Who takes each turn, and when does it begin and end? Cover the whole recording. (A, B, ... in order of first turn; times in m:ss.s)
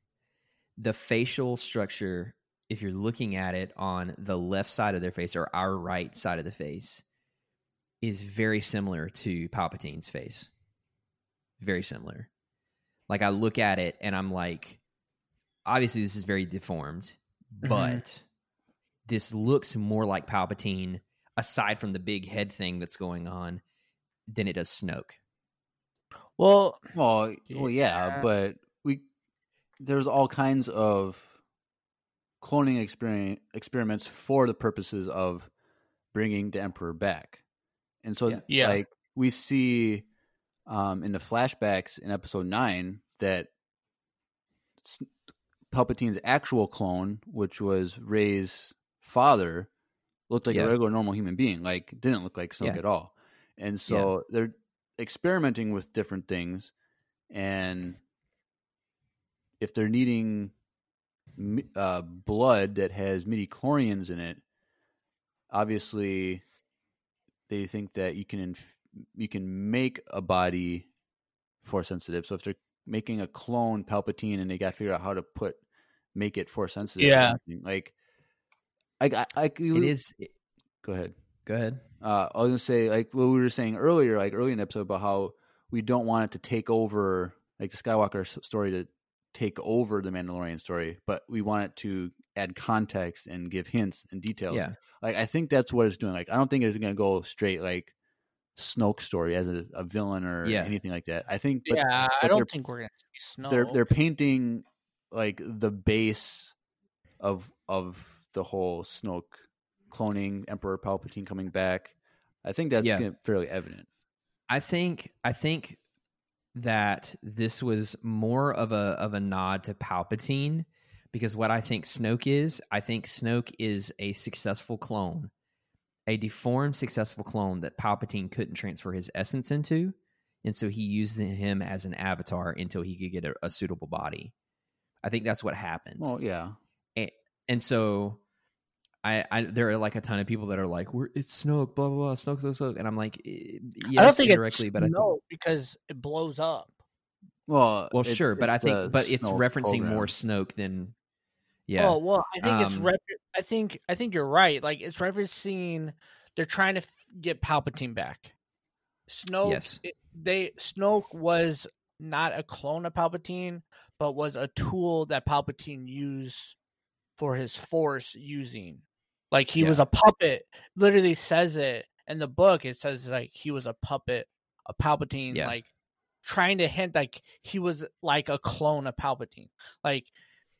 0:00.8-0:07.0 A
0:08.0-0:10.5 A
0:11.6-0:12.3 A
0:13.1-0:14.8 A
0:15.7-0:18.2 A
0:17.6-0:18.0 B
0:19.0-0:23.6 A
0:24.3-0:25.2 A
0:26.4-0:26.9 B
0:26.9-0:29.0 C
0:27.5-0:28.3 B
0:29.8-0:31.3 C
0:32.4-0:35.5 C
0:36.1-0:37.4 C
0:38.0-0:40.1 C
0:38.5-0:38.8 B
0:40.7-0:43.5 C
0:44.8-0:45.1 C
0:45.7-0:49.7 C
0:50.3-0:56.7 C
0:57.3-0:58.0 C
0:59.6-1:00.5 C
1:01.4-1:04.4 C
1:05.5-1:06.4 C
1:07.5-1:10.9 C
1:11.6-1:15.6 C
1:16.1-1:17.9 C
1:17.0-1:17.4 B
1:19.0-1:19.9 C
1:19.7-1:20.3 A
1:20.8-1:21.1 C
1:21.4-1:21.8 A
1:22.0-1:37.9 C
1:34.5-1:34.7 A
1:38.6-1:42.5 C
1:40.4-1:40.7 A
1:41.7-1:43.8 B
1:43.5-1:46.5 C
1:47.2-1:53.9 C
1:52.8-1:53.0 A
1:54.5-1:55.8 A
1:56.6-2:05.3 A
2:06.1-2:14.3 A
2:15.0-2:16.1 A
2:16.0-2:16.6 C
2:17.0-2:18.2 A
2:19.0-2:25.1 A
2:23.9-2:26.8 B
2:27.5-2:30.1 C
2:27.9-2:31.0 A
2:31.7-2:32.9 A
2:31.8-2:38.3 B
2:39.1-2:46.6 B
2:39.4-2:39.8 A
2:47.2-2:55.7 B
2:55.3-2:55.6 A
2:56.2-3:00.1 B